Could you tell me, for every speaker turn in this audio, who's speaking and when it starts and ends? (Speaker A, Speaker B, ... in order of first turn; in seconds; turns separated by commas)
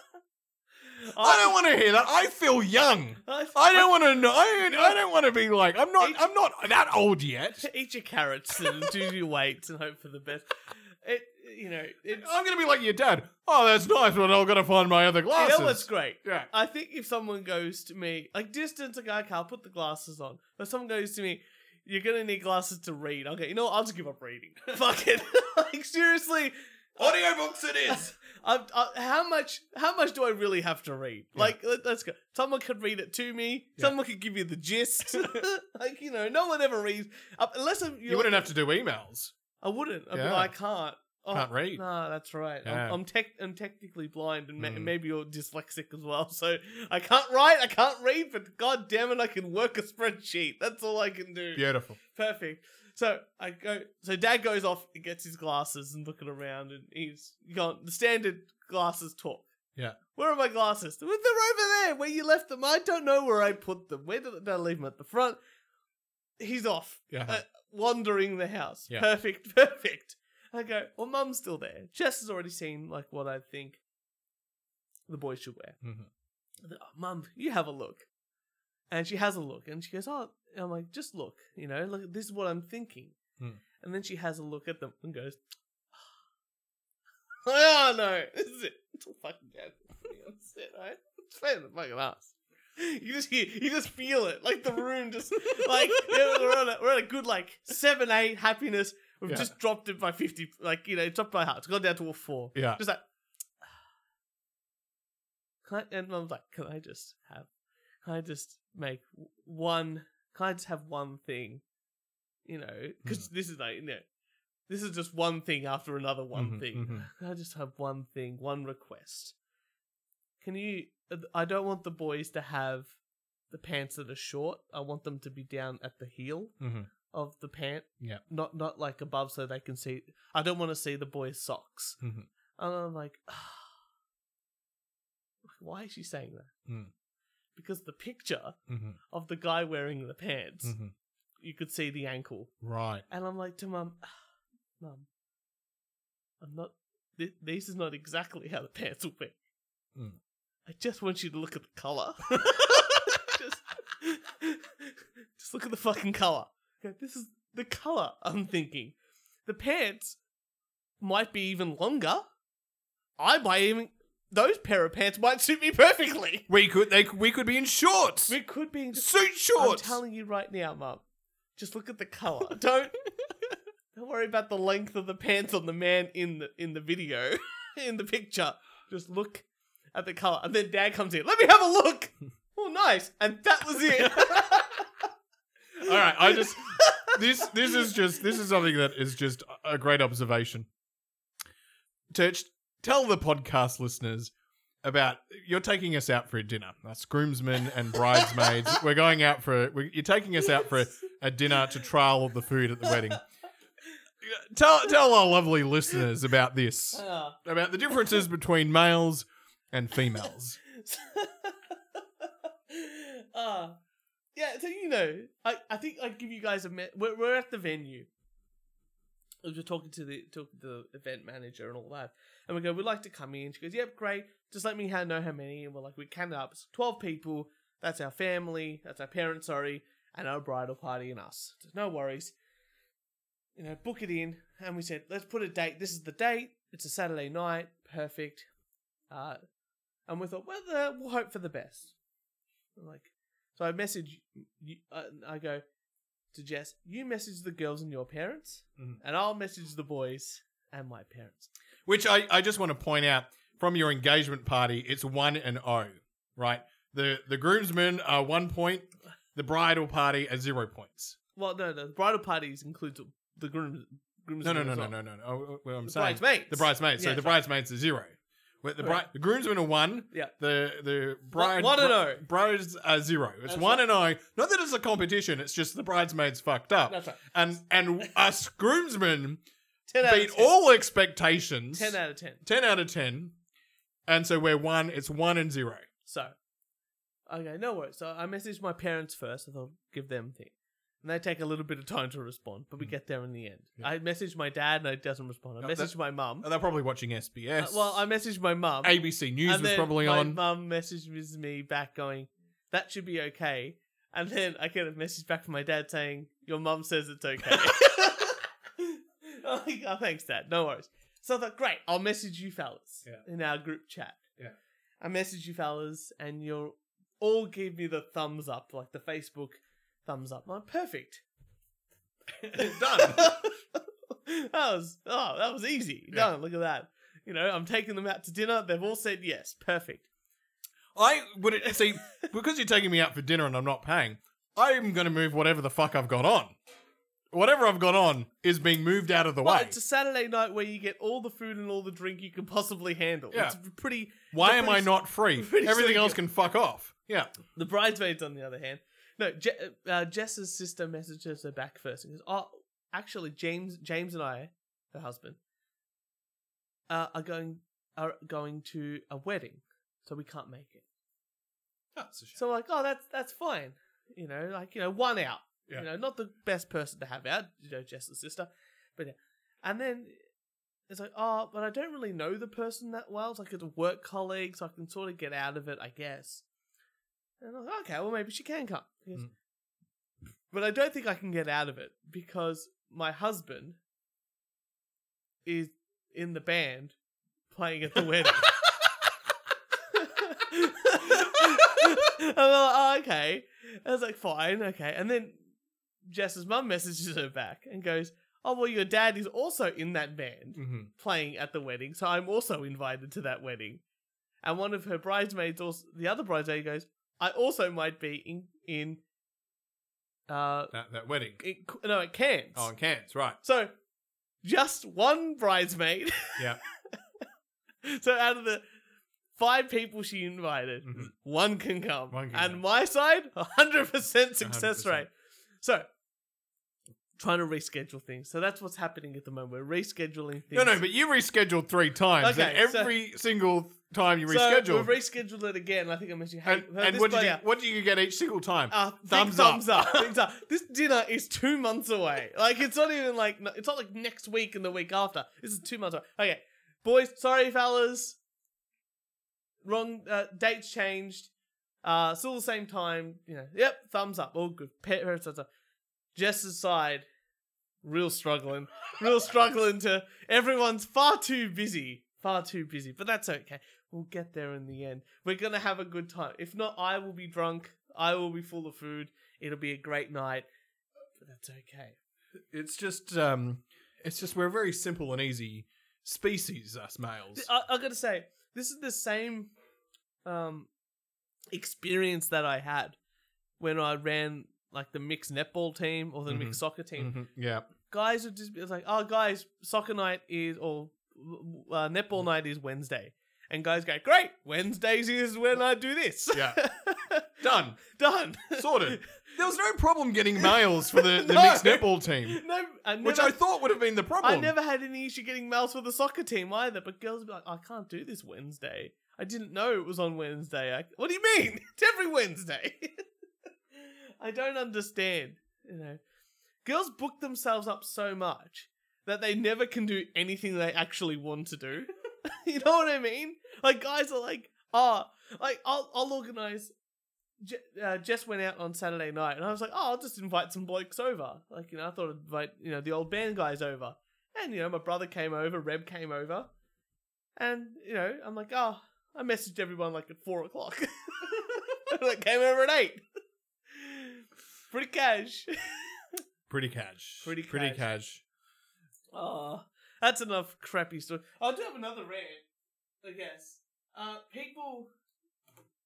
Speaker A: 1.0-1.6, Speaker B: 1.2-7.7, Speaker A: 3.2-5.0, Speaker A: 6.0-6.3, Speaker A: 7.6-12.3, Speaker B: 8.6-8.9, Speaker B: 12.1-16.5, Speaker A: 15.3-27.2, Speaker B: 27.0-28.1, Speaker A: 27.9-38.5, Speaker B: 35.1-35.5, Speaker B: 38.1-39.3, Speaker A: 39.6-59.5, Speaker B: 40.1-40.5, Speaker B: 41.3-41.8, Speaker B: 42.6-43.0, Speaker B: 44.6-44.9, Speaker B: 51.5-52.0, Speaker A: 60.1-65.4, Speaker A: 66.4-73.8, Speaker B: 67.1-67.4, Speaker A: 75.1-75.8, Speaker B: 75.8-76.1, Speaker A: 76.6-78.1, Speaker A: 78.9-83.2, Speaker A: 83.8-85.4, Speaker A: 87.5-103.0, Speaker B: 96.0-96.4, Speaker B: 99.3-99.5, Speaker B: 102.5-102.8, Speaker A: 105.7-107.5, Speaker A: 108.0-111.6, Speaker A: 112.5-114.0, Speaker A: 114.7-119.3, Speaker B: 116.3-117.1, Speaker A: 120.4-123.0, Speaker A: 123.5-126.6, Speaker B: 126.6-126.9, Speaker A: 127.1-132.0, Speaker B: 132.0-132.3, Speaker A: 132.6-133.7, Speaker A: 135.4-136.5, Speaker B: 136.7-136.9, Speaker A: 137.6-138.6, Speaker B: 138.7-139.0, Speaker A: 139.1-140.8, Speaker B: 140.6-140.9, Speaker A: 141.4-142.5, Speaker B: 142.6-143.1, Speaker A: 143.1-144.1, Speaker A: 144.8-145.1, Speaker A: 146.4-149.4, Speaker A: 150.7-160.2, Speaker B: 152.4-152.7, Speaker A: 161.0-162.2, Speaker A: 163.2-166.5, Speaker B: 166.5-168.4, Speaker A: 168.3-171.0, Speaker B: 168.9-170.0, Speaker A: 171.6-173.0, Speaker A: 173.9-184.9, Speaker B: 183.9-184.5, Speaker B: 185.8-190.7, Speaker A: 185.8-187.9, Speaker B: 192.1-194.3, Speaker B: 194.8-203.2, Speaker B: 204.2-210.6, Speaker A: 206.9-207.4, Speaker A: 210.7-213.8, Speaker A: 214.3-218.1, Speaker A: 219.4-232.3, Speaker A: 233.6-238.5, Speaker A: 239.1-239.4, Speaker A: 240.1-241.9, Speaker A: 242.8-245.6, Speaker A: 246.3-251.5, Speaker B: 251.9-261.2, Speaker A: 261.4-265.0, Speaker B: 264.4-279.4, Speaker A: 265.9-267.4, Speaker A: 268.8-269.1, Speaker A: 271.3-272.2, Speaker A: 273.5-273.9, Speaker A: 276.9-277.2, Speaker A: 279.9-280.6, Speaker B: 280.0-283.3, Speaker A: 281.7-282.4, Speaker B: 284.1-285.9, Speaker A: 286.1-286.4, Speaker A: 287.3-296.5, Speaker B: 295.6-298.0, Speaker A: 297.6-314.2, Speaker B: 298.8-300.4, Speaker B: 307.4-307.7, Speaker A: 315.0-321.2, Speaker B: 322.4-323.4, Speaker A: 322.5-330.1, Speaker B: 330.9-336.6, Speaker B: 337.3-339.8, Speaker A: 339.4-346.2, Speaker B: 343.3-343.6, Speaker B: 344.2-347.3, Speaker A: 347.6-355.4, Speaker A: 356.9-360.9, Speaker B: 361.9-362.4, Speaker A: 362.4-370.2, Speaker A: 370.9-376.4, Speaker A: 377.4-379.3, Speaker A: 380.5-383.8, Speaker A: 385.4-386.9, Speaker A: 387.5-388.5, Speaker A: 389.9-395.4, Speaker B: 391.3-391.9, Speaker A: 396.1-403.8, Speaker B: 400.6-400.9, Speaker A: 404.4-409.0, Speaker A: 410.3-410.7, Speaker B: 410.7-411.4, Speaker A: 411.4-412.7, Speaker B: 412.6-413.4, Speaker A: 413.4-413.7, Speaker A: 414.4-416.5, Speaker A: 417.8-418.6, Speaker A: 419.4-425.1, Speaker B: 420.8-421.1, Speaker B: 422.1-422.6, Speaker B: 424.4-425.1, Speaker A: 425.6-425.9, Speaker A: 427.2-430.8, Speaker B: 430.5-434.9, Speaker A: 432.2-432.9, Speaker A: 434.3-437.4, Speaker B: 436.4-440.2, Speaker A: 438.7-448.2, Speaker A: 449.6-451.3, Speaker A: 451.8-455.5, Speaker A: 456.1-457.1, Speaker A: 457.8-470.5, Speaker A: 471.2-472.0, Speaker B: 472.5-477.5, Speaker A: 477.4-479.5, Speaker A: 480.2-480.7, Speaker A: 481.5-483.0, Speaker A: 483.6-487.1, Speaker B: 486.3-487.7, Speaker A: 487.9-499.2, Speaker B: 496.3-496.6, Speaker B: 497.4-497.8, Speaker B: 498.5-502.4, Speaker A: 500.4-503.4, Speaker B: 503.0-504.6, Speaker A: 504.2-513.0, Speaker A: 513.7-516.0, Speaker A: 516.6-526.7, Speaker A: 527.4-536.5, Speaker A: 537.4-543.0, Speaker A: 543.7-546.1, Speaker B: 546.5-548.2, Speaker A: 547.2-547.9, Speaker A: 549.1-552.4, Speaker A: 553.0-554.9